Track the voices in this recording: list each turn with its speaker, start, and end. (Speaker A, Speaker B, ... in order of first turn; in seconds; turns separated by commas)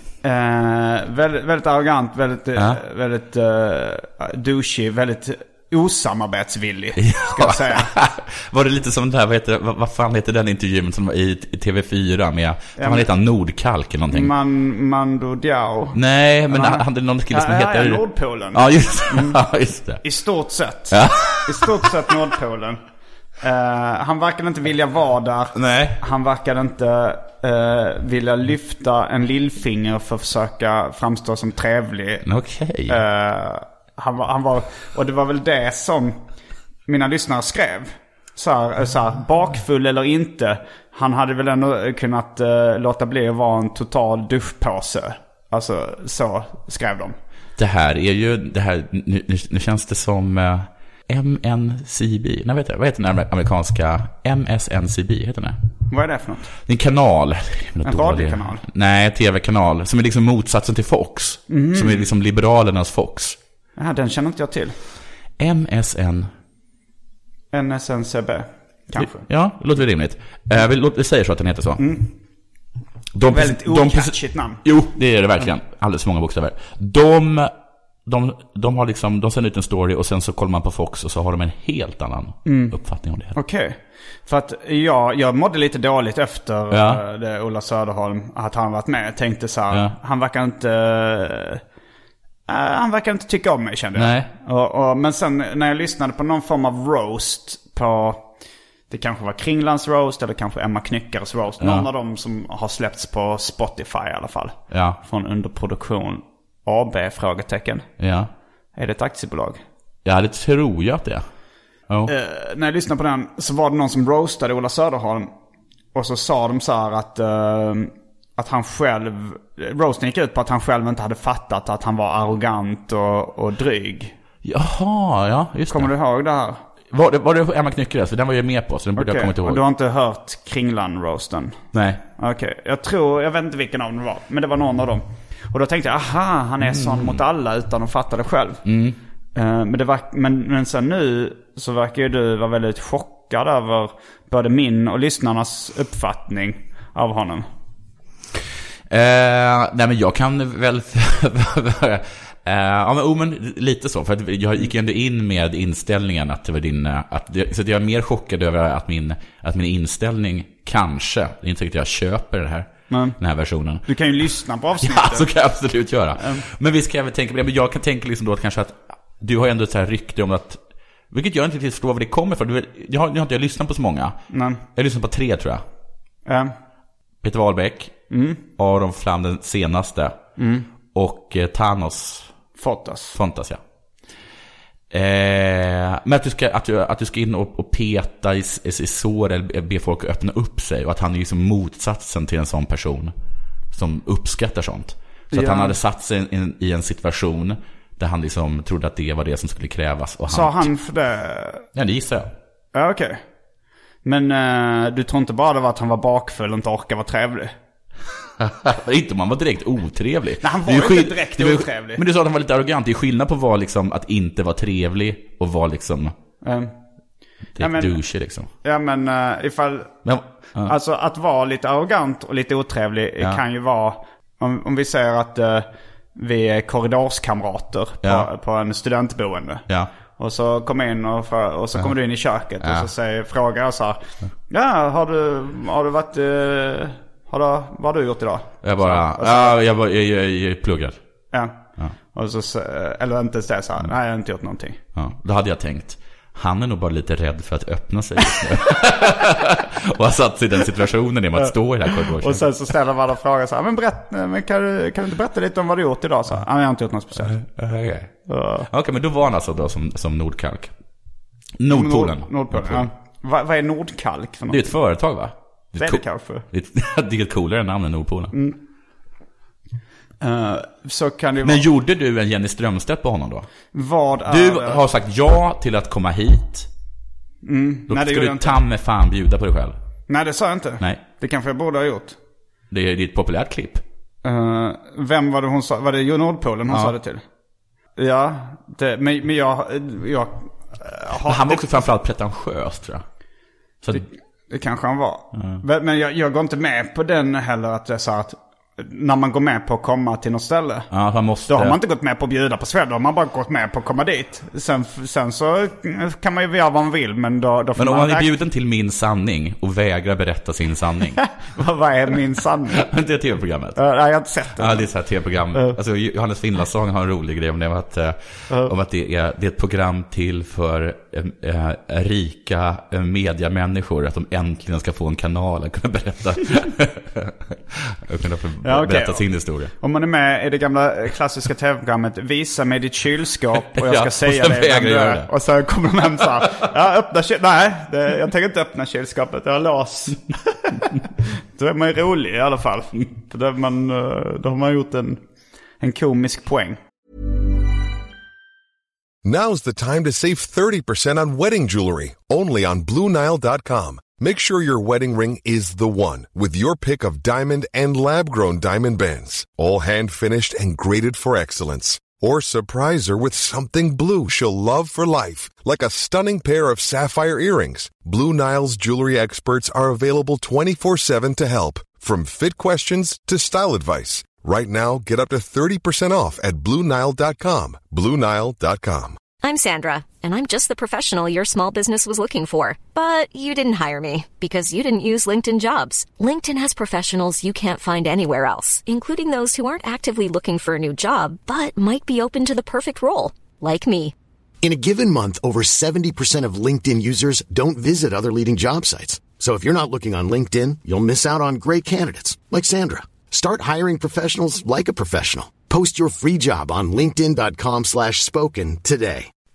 Speaker A: 0.2-7.9, Speaker B: 7.0-14.3, Speaker A: 12.8-13.1, Speaker A: 14.1-19.4, Speaker B: 15.9-20.0, Speaker A: 20.0-22.8, Speaker B: 20.9-21.8, Speaker A: 23.4-32.2, Speaker B: 25.5-26.0, Speaker B: 32.2-33.0, Speaker A: 32.9-36.2, Speaker A: 36.9-47.1, Speaker B: 47.6-55.6, Speaker A: 55.9-56.5, Speaker B: 56.6-63.4, Speaker A: 57.8-58.6, Speaker A: 61.5-62.1, Speaker A: 63.8-64.8, Speaker B: 65.4-66.3, Speaker A: 67.5-69.3, Speaker B: 69.0-71.8, Speaker A: 71.8-72.1, Speaker B: 73.1-77.5, Speaker A: 73.2-74.6, Speaker B: 78.0-83.3, Speaker A: 82.4-82.8, Speaker A: 83.3-91.6, Speaker B: 86.7-87.0, Speaker A: 92.5-98.3, Speaker B: 93.9-94.3, Speaker A: 98.9-107.9, Speaker B: 101.6-101.9, Speaker B: 104.7-105.0, Speaker B: 108.0-108.3, Speaker A: 108.8-109.6, Speaker B: 110.0-111.2, Speaker A: 112.1-115.3, Speaker A: 115.9-124.1, Speaker B: 124.4-125.9, Speaker A: 125.7-126.6, Speaker B: 126.9-129.6, Speaker A: 128.9-131.6, Speaker B: 131.7-132.0, Speaker A: 132.2-138.6, Speaker B: 136.6-137.2, Speaker B: 138.6-139.0, Speaker A: 139.3-147.4, Speaker B: 148.9-163.9, Speaker A: 162.9-163.2, Speaker A: 163.8-165.3, Speaker B: 164.8-175.6, Speaker A: 166.2-166.4, Speaker A: 174.3-174.6, Speaker A: 176.2-176.5, Speaker B: 177.2-180.2, Speaker A: 178.1-178.4, Speaker A: 180.4-180.7, Speaker B: 180.9-182.3, Speaker A: 182.6-183.2, Speaker B: 183.1-183.6, Speaker B: 184.9-193.1, Speaker B: 193.7-200.7, Speaker A: 195.3-195.8, Speaker A: 200.3-201.7, Speaker B: 201.7-202.3, Speaker A: 202.7-203.2, Speaker A: 204.0-207.5, Speaker B: 208.4-216.1, Speaker A: 210.4-212.0, Speaker A: 216.4-216.7, Speaker B: 217.6-218.5, Speaker A: 217.6-218.0, Speaker A: 218.6-220.0, Speaker B: 220.0-220.7, Speaker A: 220.6-239.6, Speaker B: 228.0-228.3, Speaker B: 232.6-232.9, Speaker B: 238.6-241.0, Speaker A: 241.3-244.8, Speaker B: 244.9-252.5, Speaker A: 251.4-257.4, Speaker B: 257.2-258.1, Speaker A: 258.3-258.7, Speaker B: 258.7-260.7, Speaker B: 261.6-262.9, Speaker A: 261.7-264.7, Speaker B: 264.5-268.3, Speaker A: 265.8-266.4, Speaker A: 268.3-268.6, Speaker A: 270.2-271.6, Speaker B: 271.4-273.5, Speaker A: 273.7-274.8, Speaker B: 274.3-276.7, Speaker A: 277.4-278.6, Speaker B: 277.9-279.8, Speaker A: 280.1-282.2, Speaker B: 282.7-283.8, Speaker A: 284.2-287.2, Speaker B: 286.7-286.9, Speaker A: 288.0-291.6, Speaker B: 291.2-293.0, Speaker A: 293.9-300.9, Speaker B: 295.3-295.6, Speaker B: 300.9-301.8, Speaker A: 301.5-308.3, Speaker B: 307.8-311.2, Speaker A: 311.4-312.9, Speaker B: 312.7-313.8, Speaker A: 313.8-314.9, Speaker B: 314.6-329.7, Speaker A: 328.6-341.0, Speaker B: 333.6-335.3, Speaker A: 341.6-345.2, Speaker A: 345.8-346.8, Speaker C: 349.2-379.2, Speaker D: 379.4-394.1, Speaker E: 394.6-409.3